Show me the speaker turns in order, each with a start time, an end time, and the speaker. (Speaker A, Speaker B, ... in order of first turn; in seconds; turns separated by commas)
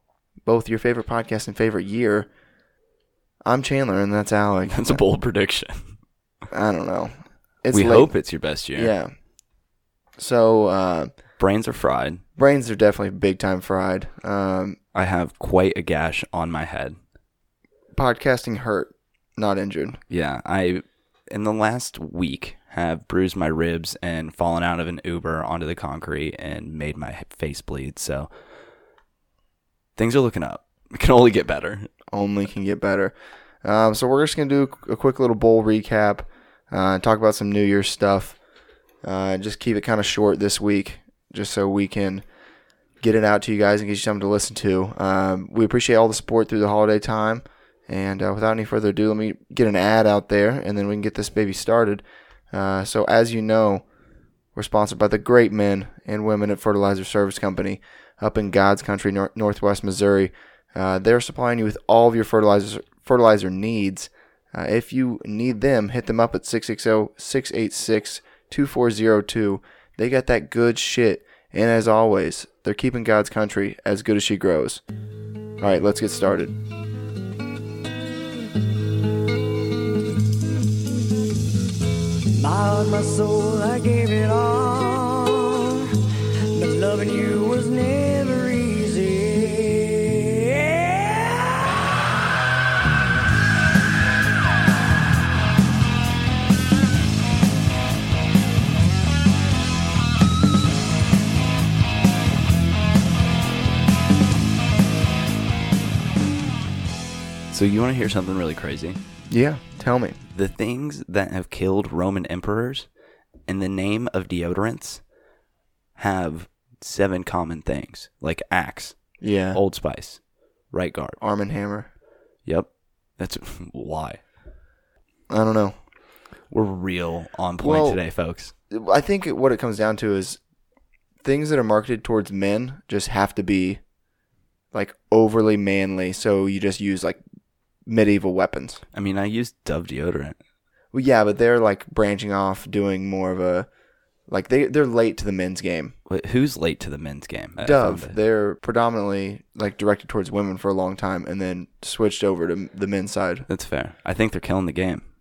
Speaker A: 0.5-2.3, Speaker A: 3.4-5.0, Speaker B: 4.7-5.8, Speaker A: 6.5-8.1, Speaker B: 7.7-8.9, Speaker A: 8.7-9.1, Speaker A: 10.2-11.1, Speaker B: 11.4-12.2, Speaker A: 12.4-14.8, Speaker B: 14.9-16.9, Speaker A: 17.9-20.0, Speaker B: 20.1-28.3, Speaker B: 29.9-31.9, Speaker A: 32.1-38.4, Speaker A: 39.0-42.2, Speaker A: 43.0-53.8, Speaker A: 54.5-74.8, Speaker A: 75.6-76.5, Speaker C: 82.3-91.7, Speaker B: 107.5-109.0, Speaker A: 109.3-110.2, Speaker B: 110.3-112.9, Speaker B: 113.5-115.0, Speaker B: 116.0-120.2, Speaker A: 119.2-119.6, Speaker B: 120.7-121.2, Speaker A: 121.2-121.9, Speaker B: 122.4-124.2, Speaker A: 125.3-125.7, Speaker B: 126.5-128.5, Speaker A: 127.6-128.0, Speaker A: 128.7-130.4, Speaker A: 131.2-133.8, Speaker A: 134.7-137.2, Speaker A: 137.8-138.8, Speaker B: 138.9-140.4, Speaker A: 140.9-143.7, Speaker A: 144.3-145.9, Speaker B: 146.1-148.2, Speaker A: 147.6-153.5, Speaker B: 153.5-155.0